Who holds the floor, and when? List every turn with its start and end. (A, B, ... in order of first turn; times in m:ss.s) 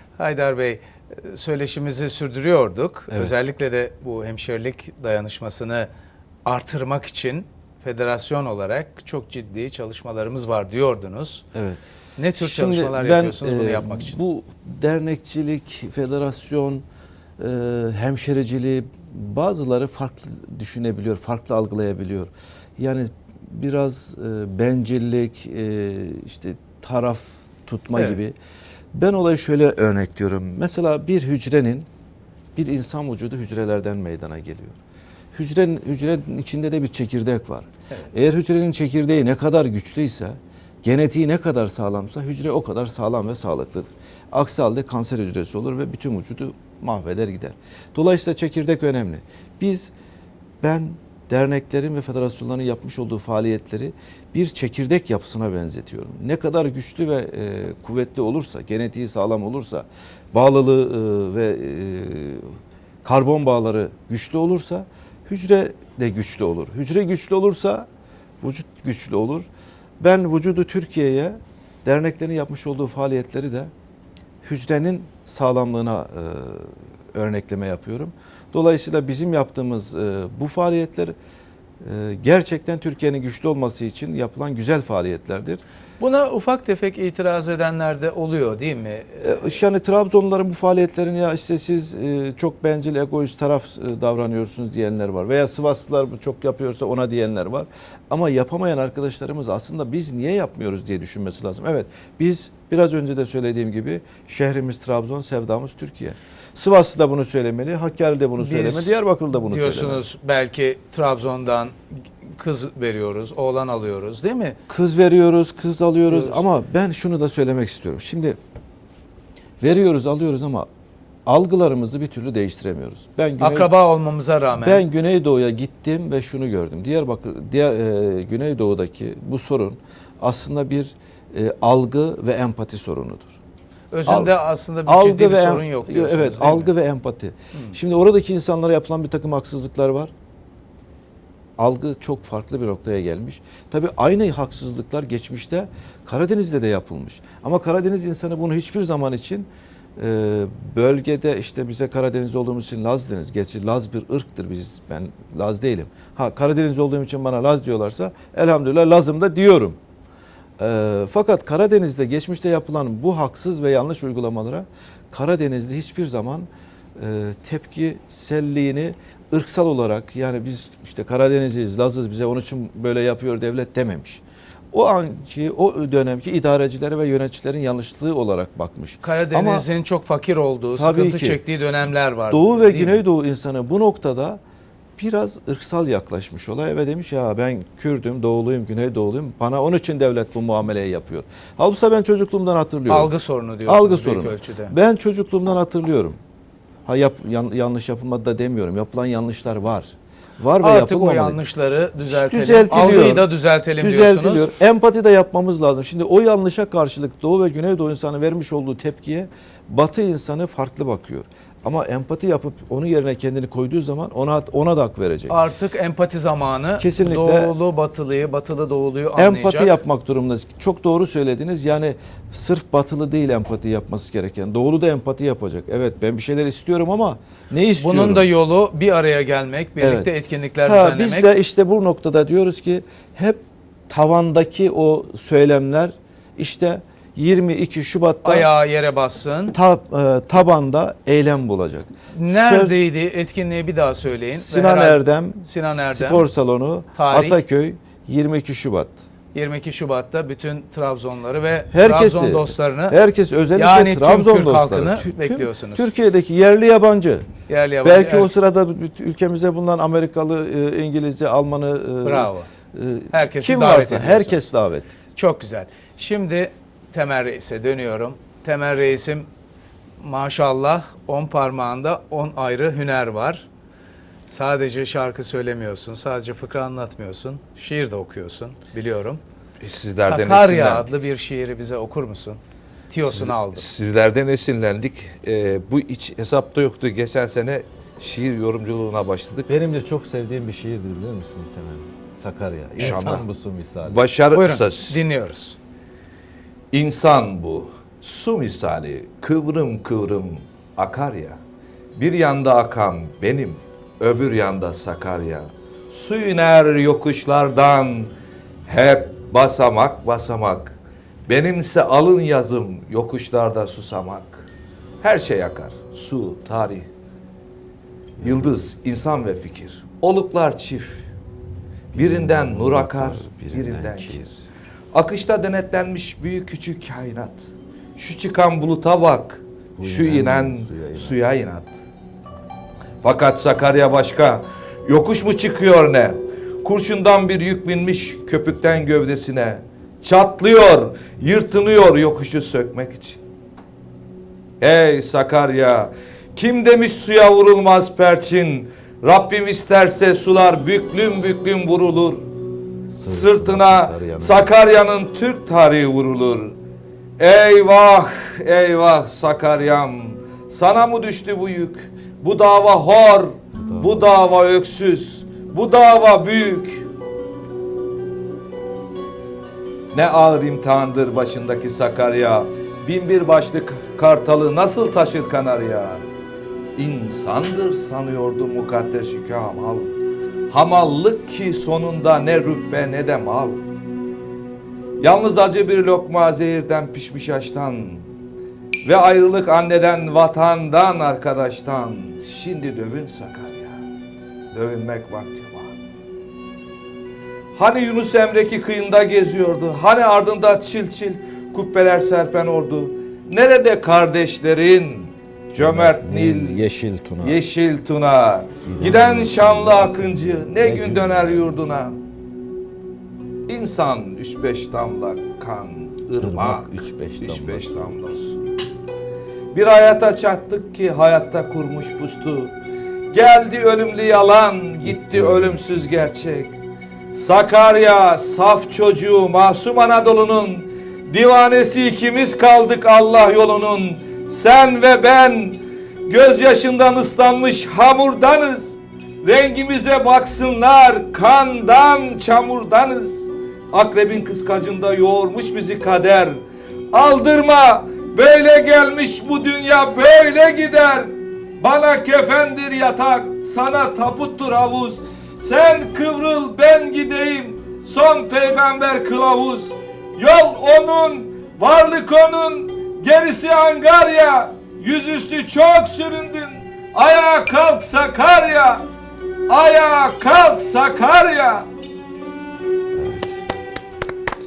0:00.2-0:05.9 A
0:06.4-0:11.4 A
0:11.5-0:11.8 B
0:12.2-0:14.2 A
0:12.4-0:16.8 B
0:17.4-0:28.4 B
0:28.9-0:31.9 B
0:32.6-0:34.8 B
0:35.3-0:49.9 B
0:50.6-1:07.9 B
1:08.4-1:09.5 B
1:10.0-1:13.7 B
1:14.4-1:21.2 B
1:21.8-1:25.6 B
1:26.0-1:29.5 A
1:29.2-1:50.0 B
1:48.4-1:54.6 A
1:54.7-1:58.4 B
1:56.1-1:56.4 A
1:59.6-2:00.7 B
2:01.3-2:03.7 B
2:03.4-2:04.8 A
2:04.6-2:13.3 B
2:13.9-2:16.7 A
2:14.1-2:20.1 B
2:21.6-2:39.8 B
2:40.6-2:59.7 B
2:59.0-3:03.0 A
3:00.8-3:01.4 B
3:02.3-3:04.4 B
3:05.0-3:13.1 B
3:12.9-3:14.7 A
3:13.7-3:16.2 B
3:16.9-3:21.4 B
3:20.6-3:24.5 A
3:22.1-3:35.4 B
3:35.3-3:39.8 A
3:36.8-3:37.6 B
3:39.2-3:48.3 B
3:47.8-3:51.3 A
3:49.8-3:50.1 B
3:50.6-3:58.5 B
3:58.2-3:59.6 A
3:59.5-4:02.9 B
4:02.1-4:06.3 A
4:04.4-4:09.0 B
4:07.0-4:07.4 A
4:09.3-4:13.0 A
4:11.7-4:17.3 B
4:13.6-4:15.9 A
4:17.5-4:18.3 A
4:17.8-4:24.9 B
4:22.0-4:22.5 A
4:23.1-4:24.5 A
4:25.2-4:29.3 A
4:30.0-4:33.5 A
4:34.3-4:39.2 A
4:39.6-4:40.9 C
4:40.0-4:43.7 A
4:43.1-4:49.5 C
4:49.5-4:54.1 B
4:52.8-4:53.3 C
4:53.9-4:55.0 C
4:54.3-4:55.6 A
4:56.7-5:01.4 C
5:02.0-5:08.1 C
5:08.7-5:10.7 C
5:11.3-5:14.5 C
5:15.0-5:16.9 C
5:18.2-5:18.5 B
5:18.2-5:21.0 C
5:21.9-5:24.4 C
5:21.9-5:24.3 B
5:24.9-5:27.4 C
5:28.0-5:31.8 C
5:29.8-5:31.2 B
5:33.0-5:43.2 C
5:44.6-5:52.3 C
5:52.9-5:54.5 B
5:53.1-5:56.6 C
5:57.2-6:06.9 C
6:03.6-6:04.1 B
6:09.9-6:16.0 C
6:16.8-6:20.0 C
6:20.5-6:23.6 C
6:25.0-6:28.1 C
6:28.8-6:33.8 C
6:34.5-6:35.8 C
6:37.6-6:46.6 C
6:45.5-6:47.4 B
6:47.2-6:52.0 C
6:48.6-6:50.0 B
6:50.5-6:51.5 B
6:53.5-6:58.6 C
6:56.2-6:58.0 B
6:59.5-7:02.6 C
7:03.1-7:06.6 C
7:04.9-7:05.7 B
7:07.1-7:48.9 C
7:49.5-7:51.7 C
7:52.9-7:53.4 B